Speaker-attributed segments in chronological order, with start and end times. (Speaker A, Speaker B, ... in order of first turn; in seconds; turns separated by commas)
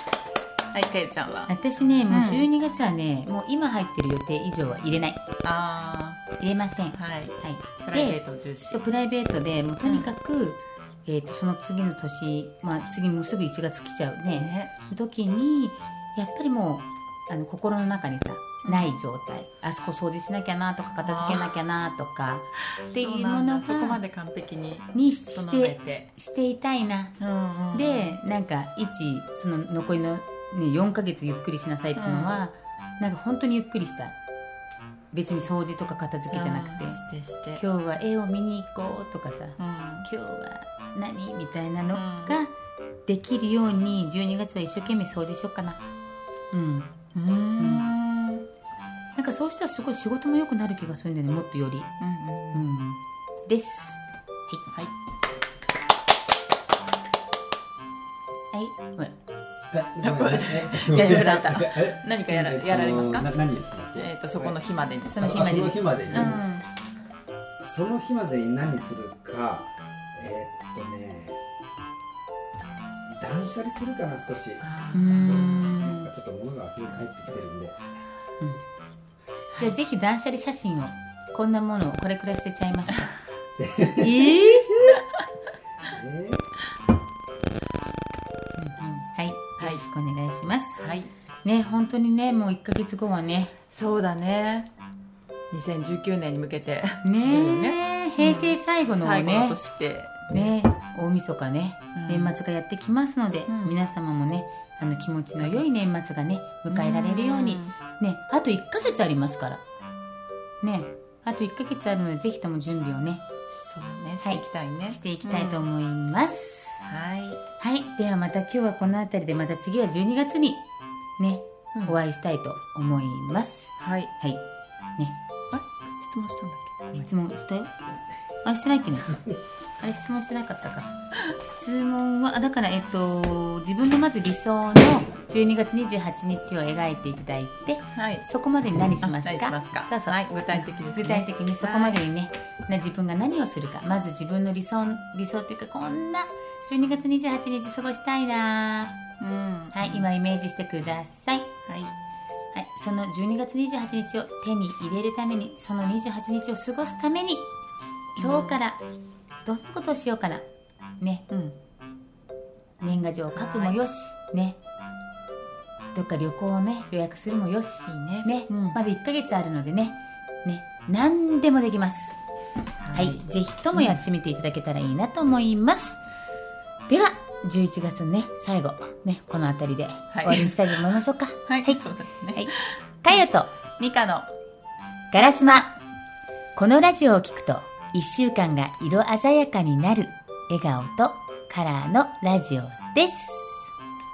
Speaker A: 0.7-1.5, Speaker B: 1.5-5.2, Speaker A: 2.1-2.5, Speaker A: 5.4-6.2, Speaker B: 6.4-24.0, Speaker A: 7.0-8.9, Speaker A: 9.8-10.1, Speaker A: 14.3-14.7, Speaker A: 18.6-19.0, Speaker A: 21.0-21.6, Speaker A: 22.8-26.1, Speaker B: 24.9-27.1, Speaker A: 27.2-28.2, Speaker B: 27.7-34.2, Speaker A: 32.0-32.4, Speaker B: 35.1-37.0, Speaker A: 36.3-37.6, Speaker B: 37.6-42.5, Speaker A: 39.6-40.1, Speaker A: 41.9-42.4, Speaker B: 43.1-45.8, Speaker B: 46.5-47.0, Speaker A: 47.1-48.5, Speaker B: 47.6-47.9, Speaker B: 49.2-51.9, Speaker A: 52.0-52.7, Speaker B: 52.5-54.7, Speaker B: 58.5-59.1, Speaker C: 59.7-64.6, Speaker A: 60.0-63.3, Speaker B: 60.9-61.4, Speaker A: 64.0-66.5, Speaker B: 65.1-66.6, Speaker C: 65.2-66.4, Speaker C: 67.6-71.4, Speaker C: 73.1-77.9, Speaker A: 74.6-75.8, Speaker B: 74.9-76.1, Speaker B: 79.6-83.2, Speaker C: 83.6-85.0, Speaker B: 84.0-84.8, Speaker C: 85.8-86.5, Speaker A: 88.6-89.0, Speaker B: 88.8-90.8, Speaker A: 90.8-91.1, Speaker B: 91.4-93.5, Speaker A: 93.7-94.7, Speaker A: 95.5-100.5, Speaker B: 97.0-99.6, Speaker B: 100.3-109.6, Speaker A: 102.0-102.3, Speaker A: 103.5-103.8, Speaker A: 105.4-105.8, Speaker A: 106.7-107.7, Speaker B: 110.6-113.2, Speaker A: 113.5-115.7, Speaker B: 114.2-116.8, Speaker A: 116.9-117.4, Speaker B: 117.6-120.6, Speaker B: 121.2-124.4, Speaker A: 123.8-124.1, Speaker A: 125.5-127.1, Speaker B: 126.9-127.8, Speaker B: 128.4-129.2, Speaker B: 129.8-149.0, Speaker A: 137.9-138.3, Speaker A: 139.0-142.0, Speaker A: 149.2-150.1, Speaker B: 149.7-151.5, Speaker A: 151.7-151.9, Speaker B: 152.5-157.5, Speaker B: 158.2-158.8, Speaker A: 158.2-158.6, Speaker B: 159.4-160.5, Speaker B: 161.0-161.3, Speaker B: 162.8-164.6, Speaker A: 163.3-163.8, Speaker B: 165.9-172.2, Speaker A: 167.9-168.8, Speaker A: 172.8-174.0, Speaker B: 172.9-176.0, Speaker B: 176.9-181.8, Speaker A: 180.1-180.8, Speaker A: 181.5-183.2, Speaker B: 182.3-183.5, Speaker A: 183.8-184.3, Speaker B: 185.1-185.7, Speaker B: 186.6-193.7